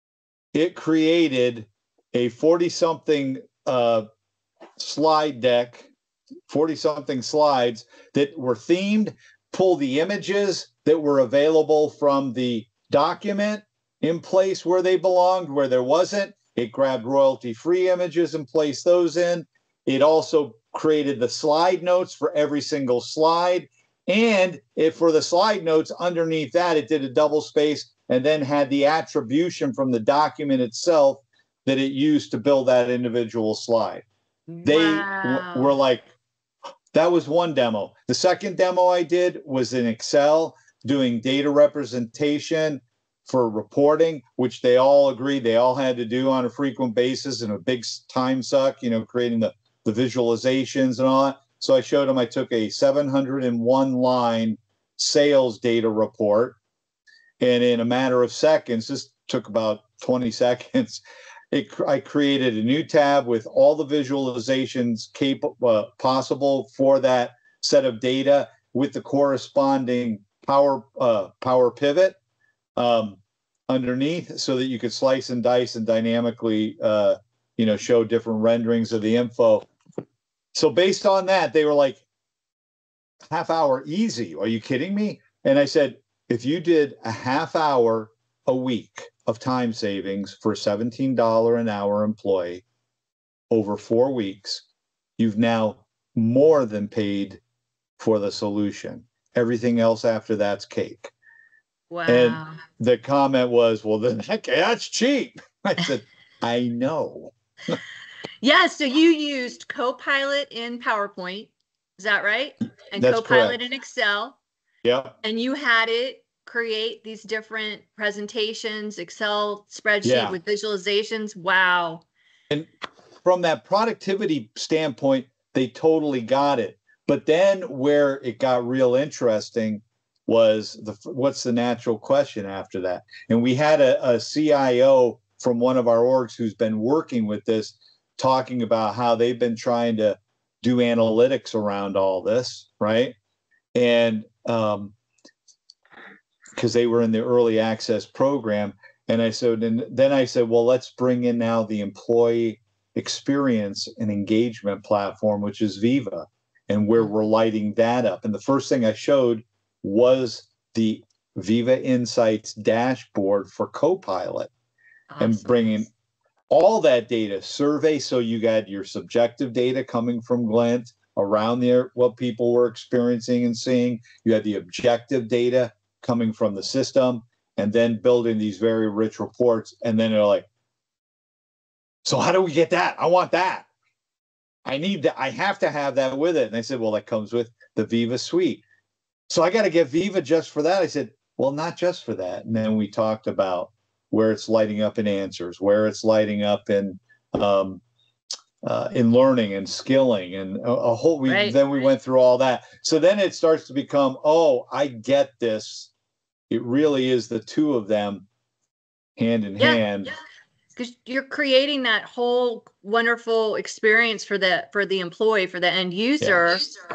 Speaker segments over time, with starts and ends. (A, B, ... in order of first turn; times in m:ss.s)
0:00.5-0:04.0 A
0:04.8-0:05.9 A
0:06.5-0:34.0 A
0:34.5-0:35.8 B
0:34.6-0:36.0 A
0:36.9-0:56.6 A
0:57.4-1:12.2 A
1:12.8-1:19.7 A
1:20.5-1:22.0 A
1:23.3-1:32.6 A
1:33.5-1:34.6 A
1:35.2-1:37.4 A
1:38.0-1:41.1 A
1:41.9-1:42.6 B
1:42.1-1:47.8 A
1:48.4-1:54.4 B
1:53.0-1:53.6 A
1:54.8-1:55.1 A
1:55.2-2:02.0 B
2:00.0-2:00.4 A
2:03.2-2:23.2 A
2:23.7-2:24.9 A
2:26.6-2:44.5 A
2:45.1-2:45.9 B
2:45.2-2:45.9 A
2:46.5-3:00.4 A
3:02.0-3:03.7 A
3:04.6-3:08.6 A
3:09.3-3:17.8 A
3:18.6-3:25.9 A
3:21.3-3:21.6 B
3:26.5-3:28.3 A
3:29.2-3:30.1 A
3:30.8-3:36.7 B
3:36.2-3:36.5 A